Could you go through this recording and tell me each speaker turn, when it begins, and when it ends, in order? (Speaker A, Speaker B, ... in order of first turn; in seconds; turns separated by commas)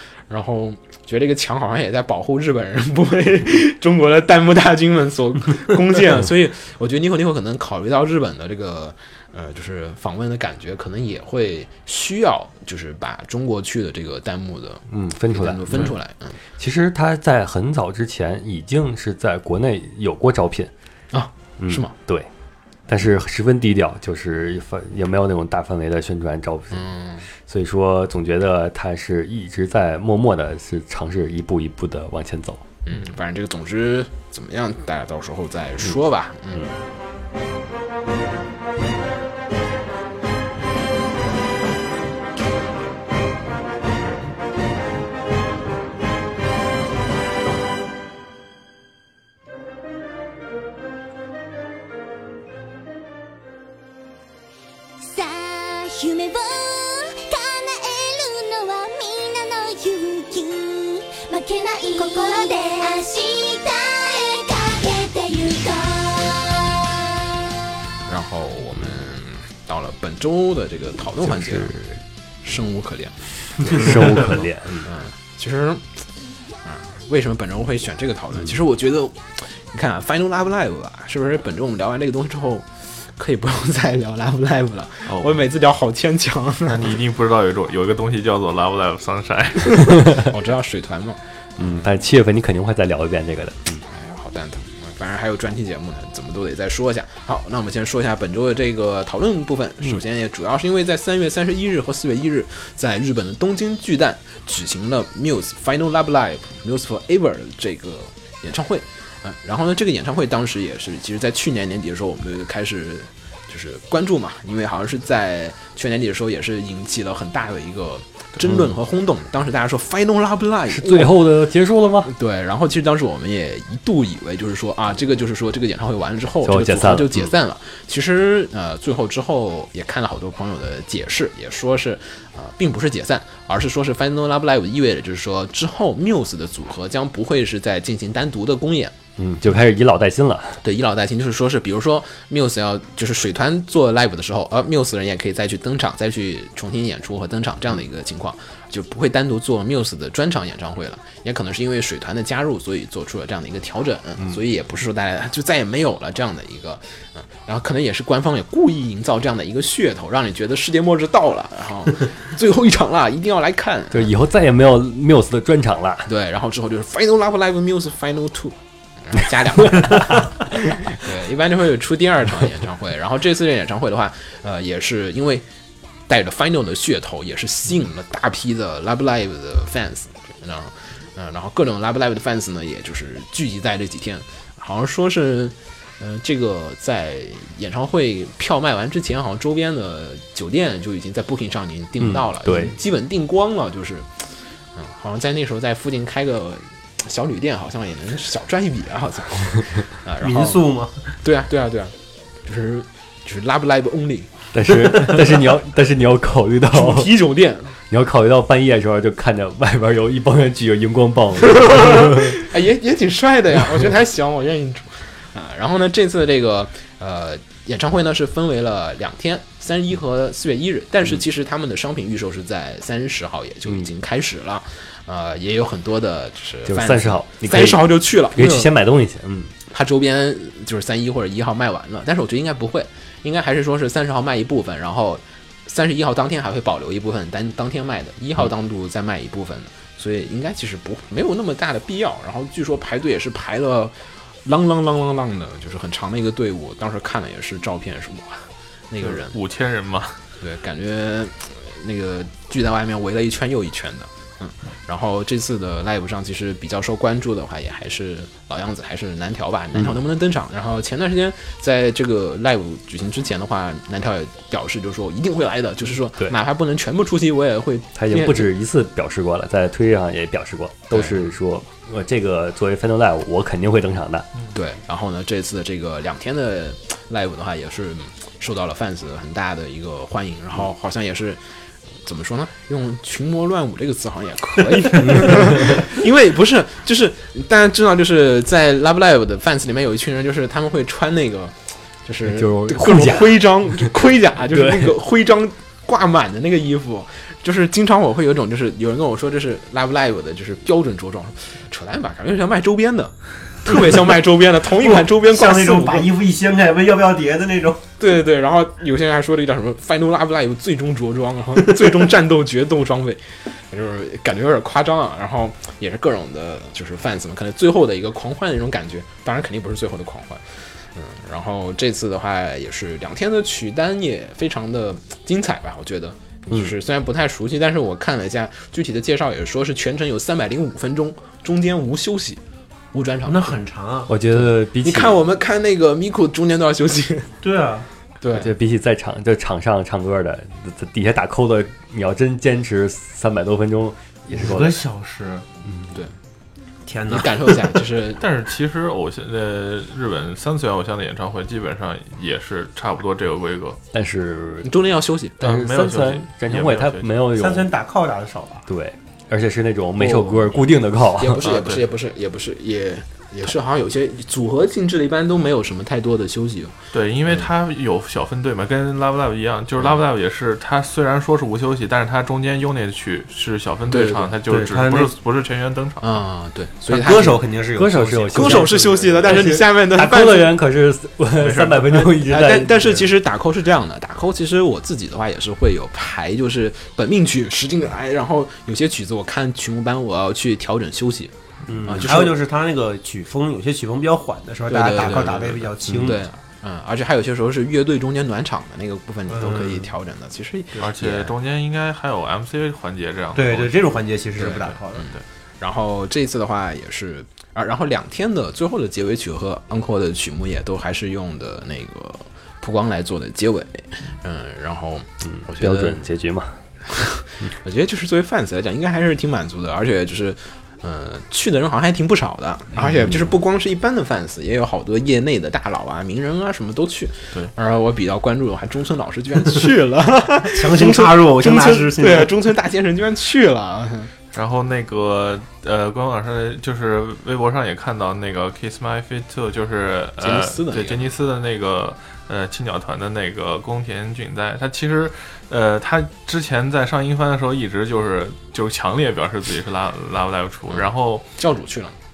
Speaker A: 0.3-16.4, Speaker B: 14.9-16.0, Speaker B: 16.6-20.7, Speaker A: 21.1-21.9, Speaker B: 21.6-22.3, Speaker B: 22.9-32.6, Speaker A: 26.7-27.3, Speaker A: 32.9-36.7, Speaker C: 55.0-67.0, Speaker A: 68.1-71.7, Speaker B: 71.2-72.0, Speaker A: 72.4-76.0, Speaker B: 73.6-74.9, Speaker A: 76.6-86.9, Speaker D: 85.1-85.4, Speaker D: 86.7-90.0, Speaker A: 90.2-91.8, Speaker B: 91.6-93.8, Speaker A: 93.9-121.2, Speaker B: 118.4-118.8, Speaker B: 120.7-122.1, Speaker A: 122.0-138.9, Speaker B: 126.4-127.3, Speaker B: 139.2-140.6, Speaker A: 140.6-164.1, Speaker B: 163.9-166.1, Speaker A: 166.1-175.5, Speaker A: 176.1-200.6, Speaker B: 192.0-192.8, Speaker E: 200.2-201.1, Speaker A: 201.2-204.3, Speaker B: 204.5-207.1, Speaker A: 204.9-205.2, Speaker A: 206.7-207.7, Speaker B: 207.9-212.4, Speaker A: 211.6-228.7, Speaker B: 226.7-229.5, Speaker A: 229.7-249.4, Speaker D: 249.0-250.2, Speaker A: 250.4-268.5, Speaker B: 267.9-274.3, Speaker A: 270.9-271.2, Speaker A: 274.5-281.4, Speaker A: 282.0-306.1, Speaker B: 285.0-285.9, Speaker B: 292.2-293.9, Speaker B: 294.5-294.9, Speaker E: 304.8-307.9, Speaker A: 308.0-332.4, Speaker A: 332.9-333.6, Speaker E: 333.2-334.1, Speaker B: 334.1-335.2, Speaker A: 334.4-337.4, Speaker E: 337.4-337.9, Speaker A: 338.2-338.5, Speaker B: 338.3-344.8, Speaker E: 344.3-345.5, Speaker E: 346.9-347.8, Speaker A: 347.1-348.2, Speaker D: 348.2-353.8, Speaker B: 353.9-354.7, Speaker A: 354.6-355.4, Speaker B: 355.4-357.7, Speaker D: 355.4-357.1, Speaker E: 357.3-358.6, Speaker B: 358.7-361.5, Speaker A: 360.0-366.8, Speaker D: 361.4-361.9, Speaker D: 366.9-376.2, Speaker A: 373.9-374.4, Speaker E: 374.5-375.1, Speaker A: 376.0-377.4, Speaker E: 376.9-379.2, Speaker B: 377.7-383.0, Speaker A: 378.3-380.5, Speaker D: 381.4-382.1, Speaker A: 382.2-391.3, Speaker E: 391.7-396.2, Speaker A: 391.9-392.4, Speaker A: 394.7-401.3, Speaker D: 395.0-395.5, Speaker E: 399.3-399.9, Speaker D: 400.8-405.2, Speaker E: 403.4-405.1, Speaker A: 404.4-416.0, Speaker B: 415.2-416.6, Speaker A: 416.9-434.1, Speaker E: 430.5-432.3, Speaker D: 434.3-451.3, Speaker A: 440.2-441.1, Speaker A: 450.7-452.0